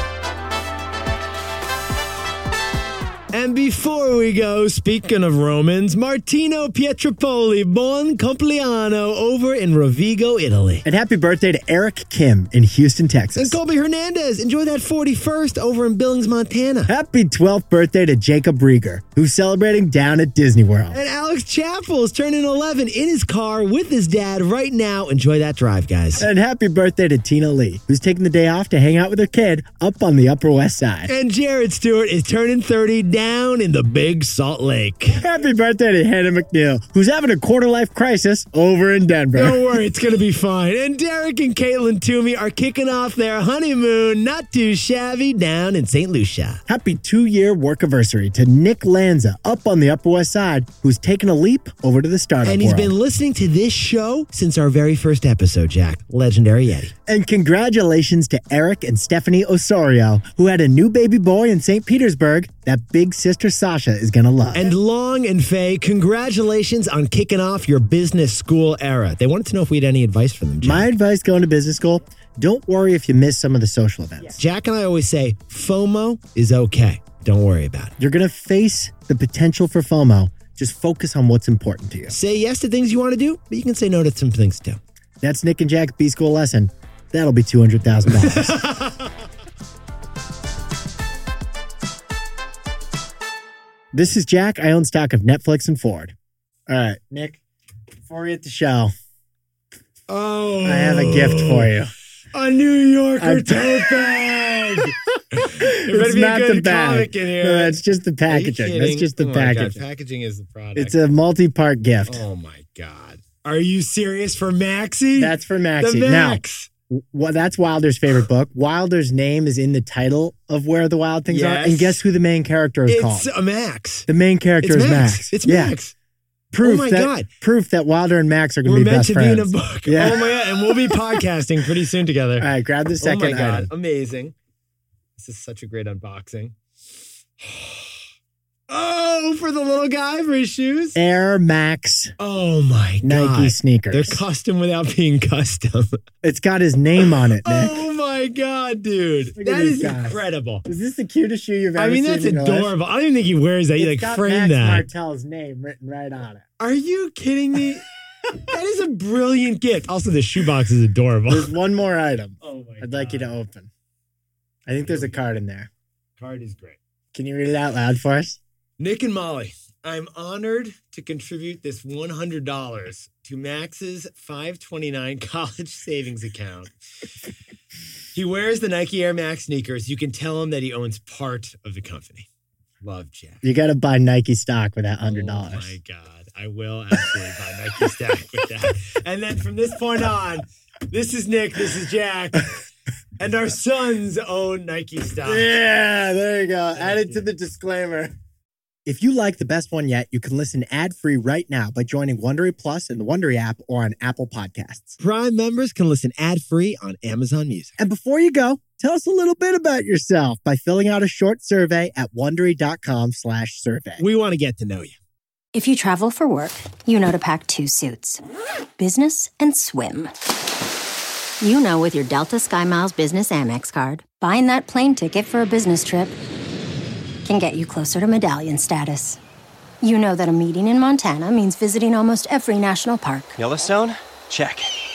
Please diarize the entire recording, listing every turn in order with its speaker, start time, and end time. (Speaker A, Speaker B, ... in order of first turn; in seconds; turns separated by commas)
Speaker A: 3.3-10.8, Speaker B: 10.8-13.6, Speaker A: 13.3-16.9, Speaker B: 16.9-21.0, Speaker A: 20.9-26.3, Speaker B: 26.1-31.1, Speaker A: 31.1-35.2, Speaker B: 35.1-39.6, Speaker A: 39.3-46.6, Speaker B: 46.7-52.9, Speaker A: 52.4-56.9, Speaker B: 57.0-64.7, Speaker A: 64.5-70.9, Speaker B: 70.6-74.4, Speaker A: 74.4-77.9, Speaker B: 78.0-82.1, Speaker A: 82.1-84.8, Speaker B: 85.2-88.6, Speaker A: 88.2-89.0, Speaker B: 93.9-96.1, Speaker B: 96.7-97.4, Speaker B: 98.1-98.9, Speaker A: 100.1-101.7, Speaker B: 100.6-101.9, Speaker A: 102.3-111.0, Speaker B: 103.2-104.0, Speaker B: 105.6-109.8, Speaker B: 110.8-112.2, Speaker A: 112.0-116.7, Speaker B: 115.2-123.3, Speaker A: 121.3-122.0, Speaker A: 122.9-124.1, Speaker B: 124.1-125.8, Speaker A: 124.6-125.9, Speaker B: 126.5-131.2, Speaker A: 126.6-127.3, Speaker A: 128.6-132.5, Speaker B: 132.4-133.7, Speaker A: 133.0-134.3, Speaker A: 135.2-136.5, Speaker A: 137.4-137.9, Speaker A: 138.7-141.0, Speaker B: 140.9-142.1, Speaker A: 142.2-146.0, Speaker B: 143.0-144.2, Speaker B: 146.2-147.8, Speaker A: 147.3-150.6, Speaker B: 149.4-152.7, Speaker A: 151.8-154.9, Speaker B: 153.8-156.4, Speaker A: 156.6-161.5, Speaker B: 161.3-163.7, Speaker A: 162.4-163.3, Speaker B: 164.7-165.7, Speaker A: 164.8-165.2, Speaker A: 166.2-166.8, Speaker B: 167.1-168.4, Speaker A: 168.8-176.7, Speaker A: 178.1-182.3, Speaker A: 182.8-183.4, Speaker B: 183.4-185.7, Speaker A: 185.1-192.5, Speaker A: 193.2-195.5, Speaker B: 195.2-198.1, Speaker A: 196.8-197.2, Speaker B: 198.8-205.0, Speaker A: 205.0-207.8, Speaker B: 207.8-214.0, Speaker A: 214.0-214.9, Speaker C: 215.5-218.2, Speaker C: 218.8-220.1, Speaker C: 221.4-226.1, Speaker C: 227.2-229.2, Speaker C: 229.8-233.4, Speaker B: 233.4-234.7